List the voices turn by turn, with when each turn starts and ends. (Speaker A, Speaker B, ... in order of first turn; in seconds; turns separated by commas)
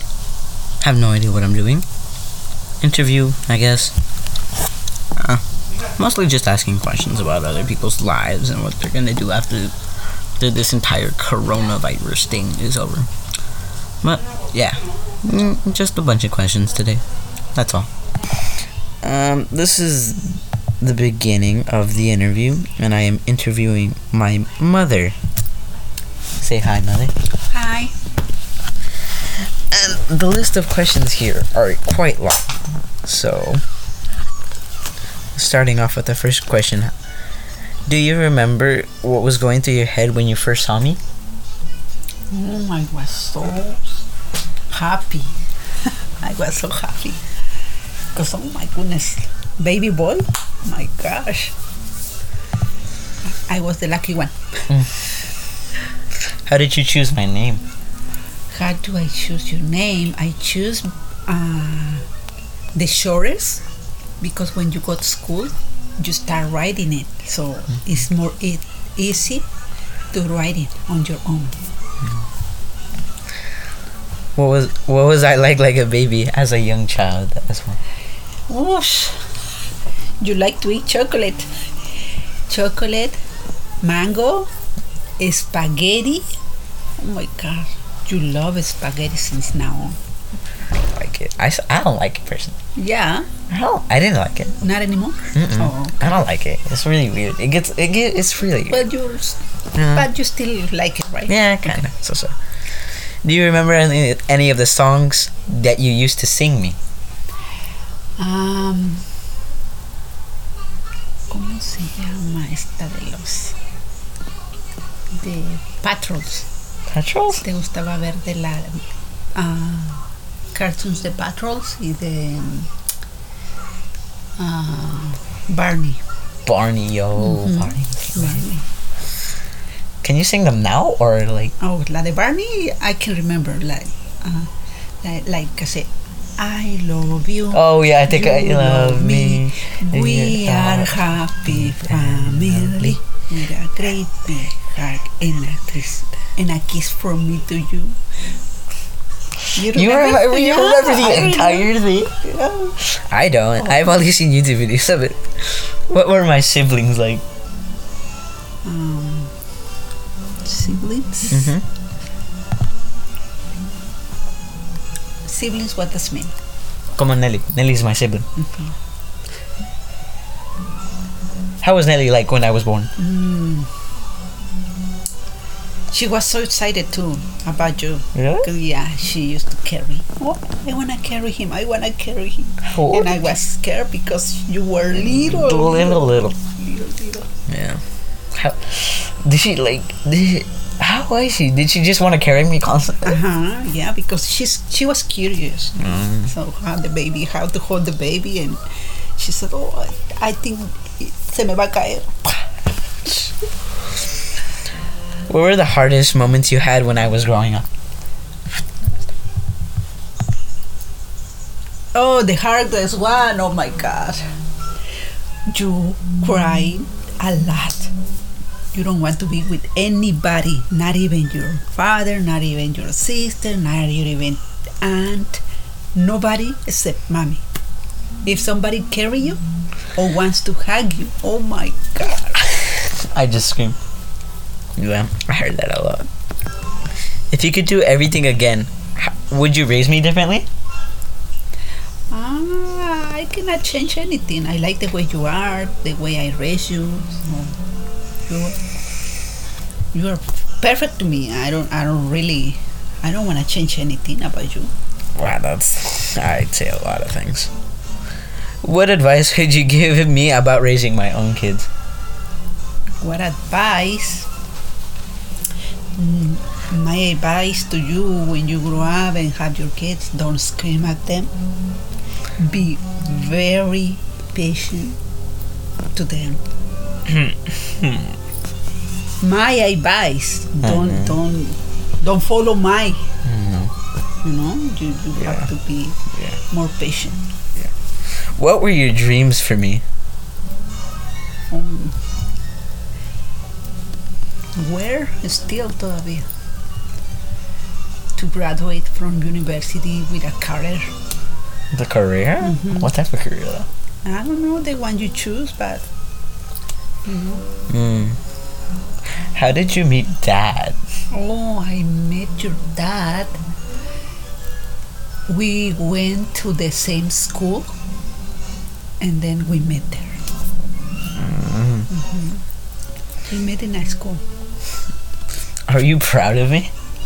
Speaker A: 0.8-1.9, Speaker A: 2.8-3.9, Speaker A: 5.2-5.4, Speaker A: 6.0-9.8, Speaker A: 10.4-13.1, Speaker A: 14.0-17.0, Speaker A: 17.6-17.9, Speaker A: 19.0-25.1, Speaker A: 26.4-27.1, Speaker B: 27.5-27.9, Speaker A: 29.7-33.6, Speaker A: 35.4-36.9, Speaker A: 37.9-41.0, Speaker B: 42.3-44.0, Speaker B: 44.7-47.2, Speaker B: 48.1-51.5, Speaker B: 53.2-54.8, Speaker A: 54.7-55.0, Speaker A: 56.3-57.6, Speaker B: 58.5-62.0, Speaker B: 62.8-63.6, Speaker B: 64.2-69.4, Speaker B: 70.1-71.6, Speaker A: 74.4-77.8, Speaker B: 78.5-79.2, Speaker B: 80.2-81.5, Speaker B: 82.5-83.2, Speaker B: 83.8-84.5, Speaker B: 85.2-86.2, Speaker B: 87.0-90.0, Speaker A: 90.9-92.6, Speaker B: 92.8-93.3, Speaker A: 93.5-94.6, Speaker B: 94.6-96.0, Speaker A: 95.3-98.8, Speaker B: 98.7-101.8, Speaker A: 99.8-100.1, Speaker A: 101.3-102.3, Speaker A: 103.2-106.8, Speaker B: 108.2-109.1, Speaker B: 111.3-113.6, Speaker B: 115.2-116.5, Speaker A: 116.9-117.4, Speaker B: 117.3-118.8, Speaker B: 119.4-122.7, Speaker B: 124.4-126.0, Speaker A: 126.5-128.4, Speaker B: 127.2-128.7, Speaker A: 130.0-131.6, Speaker B: 131.6-134.5, Speaker B: 135.0-148.0, Speaker A: 137.5-141.0, Speaker A: 141.6-143.0, Speaker B: 149.5-152.8, Speaker A: 149.6-152.1, Speaker A: 152.8-157.2, Speaker B: 158.6-159.3, Speaker B: 160.4-161.5, Speaker A: 161.3-161.6, Speaker B: 165.3-166.3, Speaker A: 166.9-168.3, Speaker B: 168.4-168.7, Speaker A: 171.6-172.9, Speaker B: 173.0-173.7, Speaker B: 175.9-187.3, Speaker A: 178.2-178.5, Speaker A: 182.7-183.2, Speaker A: 185.2-186.3, Speaker A: 187.5-193.2, Speaker B: 193.0-202.5, Speaker A: 195.8-196.3, Speaker B: 203.0-203.3, Speaker A: 205.3-207.7, Speaker B: 211.9-214.2, Speaker B: 215.5-217.9, Speaker B: 218.7-225.4, Speaker B: 225.9-227.4, Speaker B: 228.2-229.4, Speaker B: 229.9-232.4, Speaker A: 232.8-233.8, Speaker A: 234.8-236.1, Speaker A: 237.3-240.5, Speaker B: 242.1-247.6, Speaker B: 248.3-248.6, Speaker B: 249.9-254.7, Speaker A: 255.2-257.5, Speaker A: 258.6-261.7, Speaker B: 263.0-264.3, Speaker B: 266.0-271.3, Speaker B: 272.4-275.0, Speaker B: 275.9-276.4, Speaker A: 277.1-278.1, Speaker B: 279.2-283.1, Speaker A: 280.6-281.1, Speaker A: 283.2-283.7, Speaker B: 284.2-286.0, Speaker B: 286.5-287.2, Speaker A: 287.6-289.8, Speaker B: 291.5-292.0, Speaker B: 294.6-296.3, Speaker B: 298.2-300.9, Speaker A: 301.7-303.7, Speaker B: 302.4-302.9, Speaker B: 304.1-305.9, Speaker B: 307.1-307.4, Speaker A: 307.7-308.2, Speaker A: 309.2-310.8, Speaker B: 311.1-313.4, Speaker B: 315.3-317.7, Speaker B: 319.0-320.2, Speaker A: 321.1-321.9, Speaker B: 321.9-322.4, Speaker B: 323.2-324.2, Speaker A: 325.7-326.7